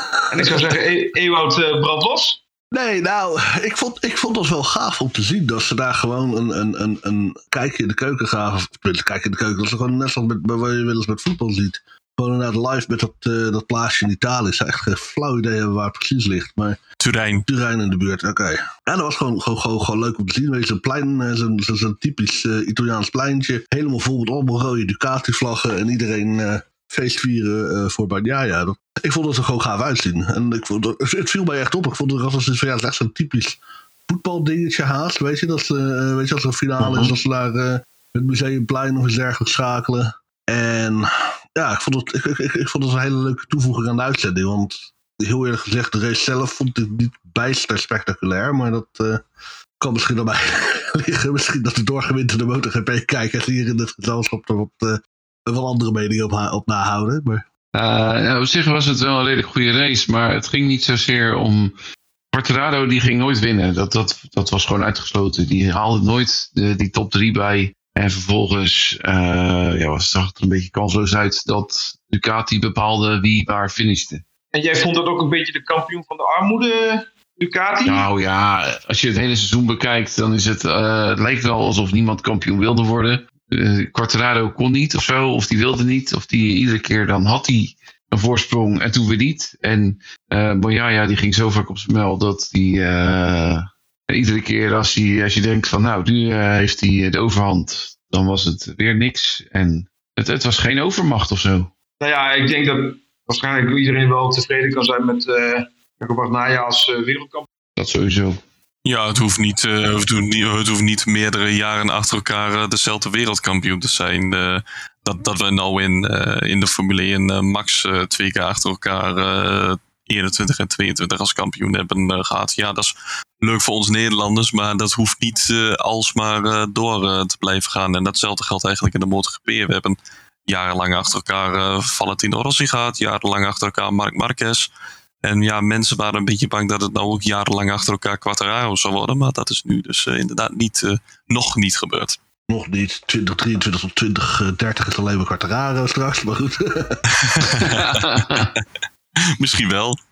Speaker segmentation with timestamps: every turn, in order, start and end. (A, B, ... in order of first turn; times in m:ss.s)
0:00.3-0:02.4 A
0:02.7-0:16.8 B
0:17.0-0:17.4 C
0:17.5-0:49.2 B
0:36.8-0:37.2 D
0:49.8-0:57.4 B
0:57.8-1:01.8 D
1:02.3-1:14.2 D
1:14.5-1:18.1 A
1:17.9-1:41.7 D
1:42.0-1:47.5 A
1:47.8-1:48.4 D
1:48.8-2:14.7 C
2:15.2-2:22.2 C
2:22.5-2:27.0 B
2:27.2-2:28.6 C
2:27.7-2:28.5 D
2:29.4-2:30.0 C